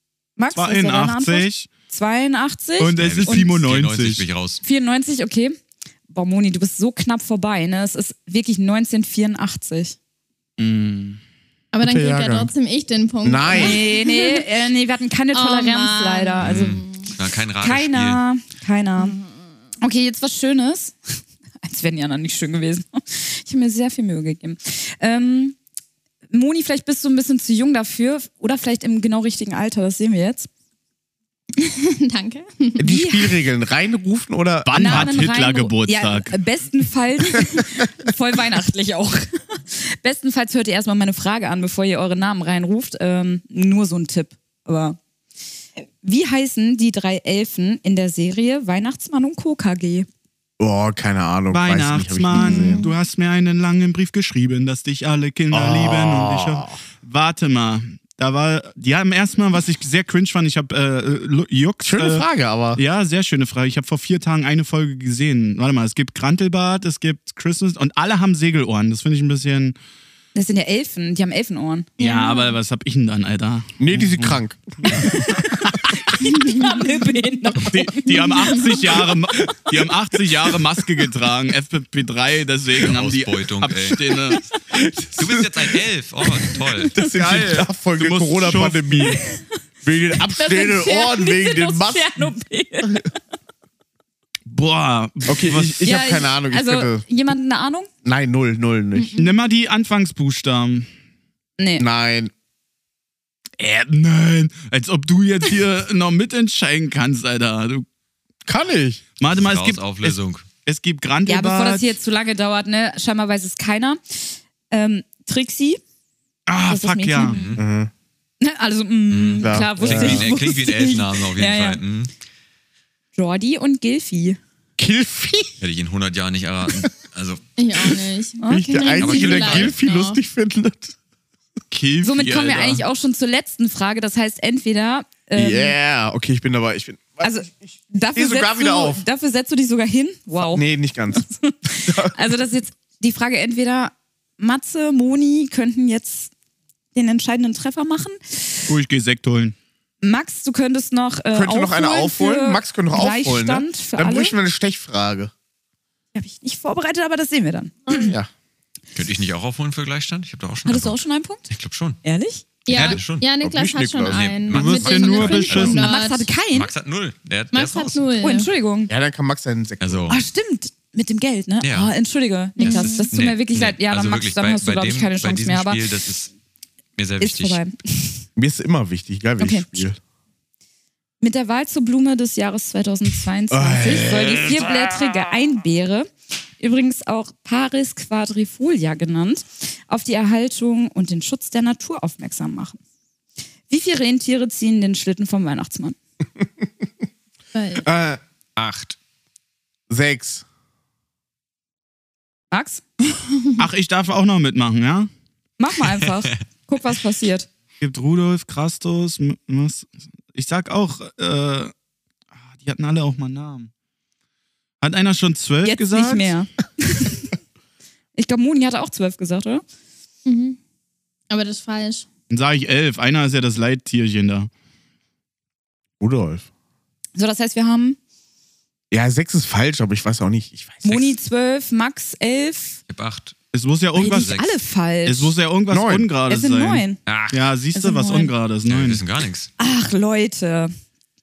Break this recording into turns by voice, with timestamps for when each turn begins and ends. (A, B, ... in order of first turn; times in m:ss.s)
0:00.4-0:03.5 A
0:00.5-0:01.7 B
0:02.8-0:04.2 B
0:03.0-0:04.6 C
0:04.6-0:05.6 A
0:06.1-0:10.0 A
0:10.6-0:11.2 B
0:11.7-0:14.5 D
0:11.8-0:12.5 E
0:13.2-0:13.8 E
0:13.5-0:16.8 A
0:15.3-0:17.1 D
0:16.4-0:18.2 C
0:17.6-0:19.2 A
0:19.0-0:19.3 D
0:19.8-0:25.6 A
0:26.3-0:30.5 A
0:31.6-0:32.8 D
0:32.8-0:35.1 E
0:32.8-0:33.3 A
0:34.6-0:36.4 B
0:34.7-0:45.0 A
0:46.0-0:50.1 A
0:50.6-0:52.8 E
0:51.5-1:09.8 B
0:52.4-0:52.9 D
0:55.5-0:56.7 E
1:01.8-1:02.8 E
1:10.3-1:12.5 A
1:12.0-1:16.3 B
1:13.8-1:15.0 E
1:14.9-1:18.7 A
1:17.6-1:24.4 B
1:19.4-1:19.8 E
1:22.8-1:24.2 C
1:24.7-1:25.7 E
1:25.2-1:27.0 C
1:26.5-1:29.2 E
1:27.1-1:29.2 B
1:29.1-1:29.4 A
1:29.8-1:32.3 E
1:30.3-1:33.1 A
1:34.5-1:35.9 B
1:35.3-1:37.0 E
1:35.8-1:37.9 A
1:38.0-1:39.2 E
1:39.2-1:40.9 B
1:41.6-1:41.8 A
1:41.8-1:42.3 E
1:43.6-1:47.8 B
1:48.4-1:49.0 E
1:49.2-1:52.0 B
1:49.2-1:50.5 C
1:51.2-1:55.8 A
1:56.5-1:57.4 B
1:56.6-1:57.4 A
1:57.2-1:57.6 C
1:57.6-1:57.9 E
1:58.4-2:01.8 A
1:59.1-2:02.1 C
1:59.4-2:00.3 E
2:03.1-2:04.4 A
2:04.8-2:05.6 E
2:05.6-2:07.4 C
2:07.6-2:10.2 D
2:08.4-2:09.2 A
2:08.5-2:10.9 E
2:09.0-2:09.8 C
2:11.7-2:12.8 B
2:12.0-2:15.7 A
2:15.4-2:17.5 E
2:17.2-2:26.3 A
2:18.1-2:19.0 E
2:20.5-2:22.1 E
2:26.9-2:28.8 A
2:28.7-2:29.5 B
2:30.0-2:34.3 A
2:31.3-2:35.3 E
2:36.1-2:38.1 A
2:37.9-2:38.3 E
2:38.9-2:42.0 C
2:40.6-2:41.5 A
2:42.0-2:42.4 A
2:42.6-2:46.3 D
2:42.7-2:43.2 C
2:43.4-2:44.3 E
2:44.1-2:45.9 C
2:44.5-2:45.8 B
2:45.2-2:46.7 A
2:46.5-2:48.0 C
2:47.5-2:48.5 D
2:48.2-2:48.9 A
2:48.9-2:50.1 E
2:49.8-2:50.2 C
2:50.1-2:55.8 A
2:51.6-2:51.9 C
2:52.6-2:53.1 D
2:52.6-2:56.3 C
2:57.0-2:57.6 C
2:57.2-2:58.2 A
2:58.4-3:00.0 E
2:59.4-2:59.8 A
3:01.2-3:06.1 A
3:03.5-3:04.6 E
3:06.6-3:12.8 A
3:13.7-3:16.0 A
3:17.5-3:17.8 D
3:17.8-3:18.2 E
3:18.6-3:18.9 C
3:19.9-3:20.4 E
3:22.5-3:22.8 A
3:23.6-3:25.1 B
3:25.6-3:27.5 A
3:26.0-3:26.3 C
3:27.8-3:31.7 B
3:32.5-3:33.7 B
3:34.8-3:36.4 B
3:35.6-3:37.3 A
3:38.2-3:39.6 A
3:40.2-3:40.6 D
3:41.3-3:42.1 D
3:42.3-3:44.5 B
3:46.0-3:46.5 E
3:47.2-3:48.0 A
3:48.9-3:51.1 E
3:50.8-3:52.8 A
3:52.9-3:53.4 C
3:53.5-3:54.3 B
3:53.9-3:55.4 A
3:54.0-3:54.6 C
3:55.0-3:59.0 B
3:55.7-3:56.1 E
3:56.3-3:57.0 A
3:57.0-3:57.4 C
3:57.7-3:58.3 A
3:58.6-3:59.5 C
3:59.6-4:00.7 A